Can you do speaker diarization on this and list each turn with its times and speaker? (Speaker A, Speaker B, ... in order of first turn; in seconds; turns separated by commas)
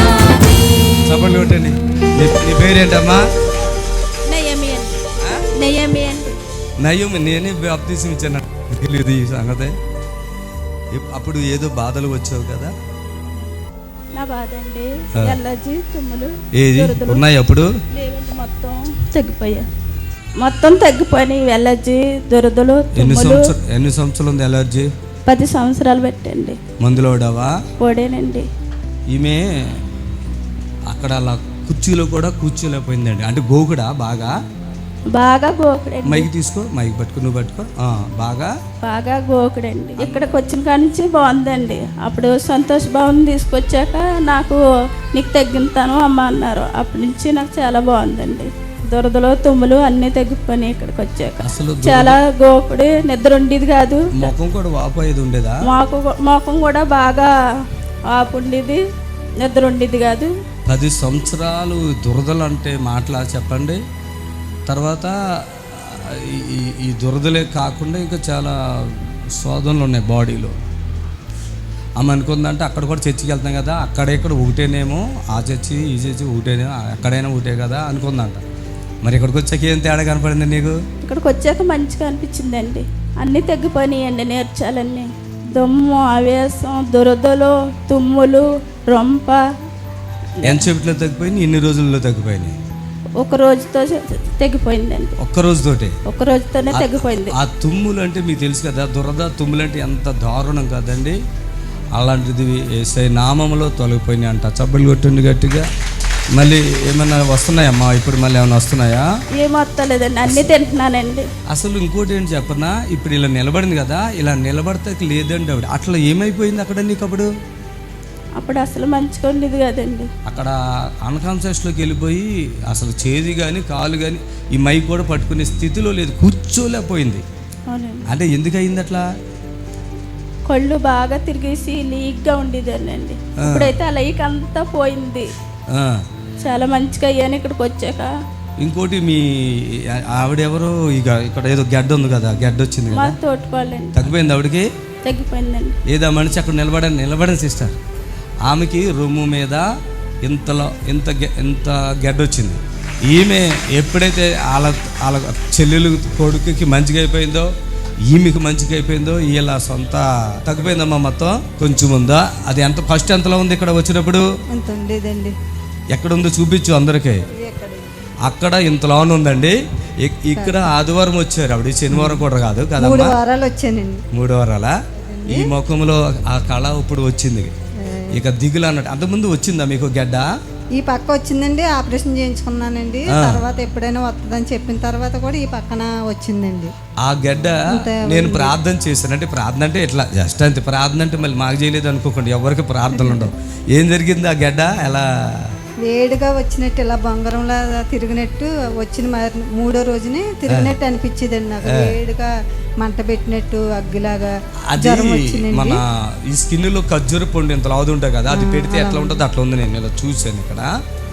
Speaker A: 1.1-3.3, Speaker B: 4.3-6.4, Speaker A: 6.8-9.8, Speaker A: 10.9-12.7, Speaker B: 14.1-17.2, Speaker A: 16.6-17.7, Speaker B: 17.9-19.7, Speaker B: 20.4-23.5, Speaker A: 23.0-24.9, Speaker B: 25.3-26.6, Speaker A: 26.8-27.6, Speaker B: 27.8-28.5, Speaker A: 29.1-29.5, Speaker A: 30.9-34.4, Speaker B: 35.1-36.3, Speaker A: 36.0-38.5, Speaker B: 38.8-44.6, Speaker A: 40.0-40.3, Speaker B: 45.1-54.3, Speaker A: 51.4-52.2, Speaker A: 54.2-55.6, Speaker B: 55.6-57.3, Speaker B: 58.1-58.8, Speaker B: 59.4-60.3, Speaker A: 60.7-63.8, Speaker A: 64.7-70.5, Speaker A: 72.0-78.4, Speaker A: 79.0-80.8, Speaker B: 81.0-89.4, Speaker B: 90.4-90.7, Speaker A: 90.5-92.6, Speaker B: 93.2-95.2, Speaker A: 95.2-96.0, Speaker B: 96.0-97.3, Speaker A: 96.7-101.2, Speaker A: 102.0-105.7, Speaker A: 106.3-109.1, Speaker B: 109.4-111.3, Speaker A: 110.2-110.5, Speaker A: 111.5-117.3, Speaker B: 118.4-120.1, Speaker A: 120.3-127.2, Speaker B: 127.7-128.1, Speaker A: 128.1-129.1, Speaker B: 130.5-135.3, Speaker A: 133.4-133.7, Speaker A: 135.7-136.0, Speaker B: 136.4-138.1, Speaker A: 138.6-143.2, Speaker B: 142.9-144.1, Speaker A: 143.9-144.7, Speaker B: 145.1-145.8, Speaker A: 145.9-147.8, Speaker A: 148.4-149.7, Speaker A: 150.2-157.5, Speaker A: 158.1-164.2, Speaker C: 164.5-165.3, Speaker A: 165.9-167.2, Speaker C: 167.4-168.0, Speaker A: 168.2-173.2, Speaker C: 170.3-170.7, Speaker C: 171.9-172.2, Speaker C: 172.8-174.0, Speaker A: 174.1-174.8, Speaker C: 175.0-175.5, Speaker A: 175.3-177.5, Speaker C: 177.8-178.2, Speaker A: 178.1-180.3, Speaker C: 180.8-186.7, Speaker A: 183.1-183.4, Speaker A: 187.0-195.5, Speaker C: 187.7-188.6, Speaker C: 192.9-193.3, Speaker C: 195.8-202.3, Speaker A: 200.5-200.8, Speaker A: 201.6-202.0, Speaker C: 202.8-205.8, Speaker A: 204.7-210.7, Speaker C: 208.3-209.2